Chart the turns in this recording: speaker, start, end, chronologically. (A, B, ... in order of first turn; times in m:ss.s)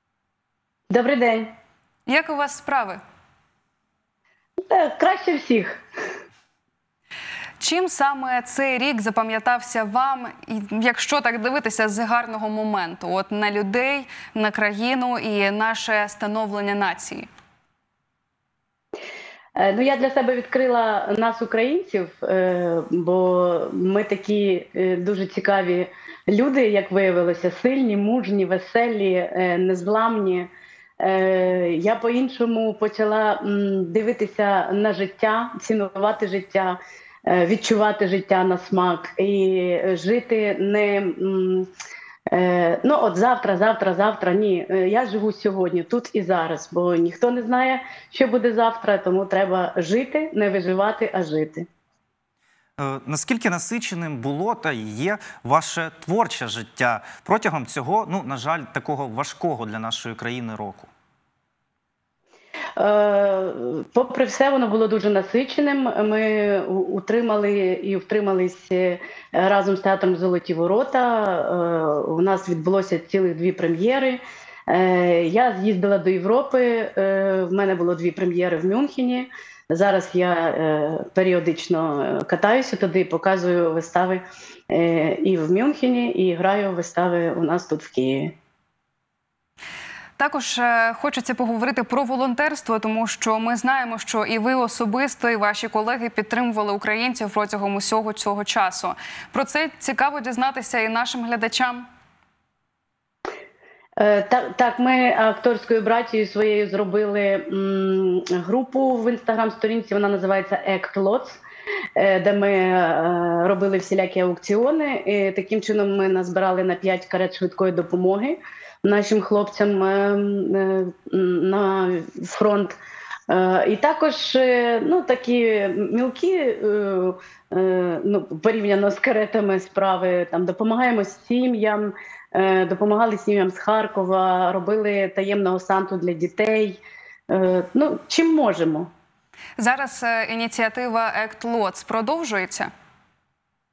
0:00.9-0:01.5 A
0:02.1-0:03.0 B
0:04.6-0:05.8 A
0:07.6-0:17.3 B
0:19.6-0:41.7 A
0:42.3-0:51.7 A
0:52.8-1:00.9 C
1:02.8-1:28.3 A
1:30.2-1:41.8 B
1:44.0-1:51.4 A
1:52.0-2:02.8 A
2:03.3-2:18.9 A
2:19.6-2:22.7 B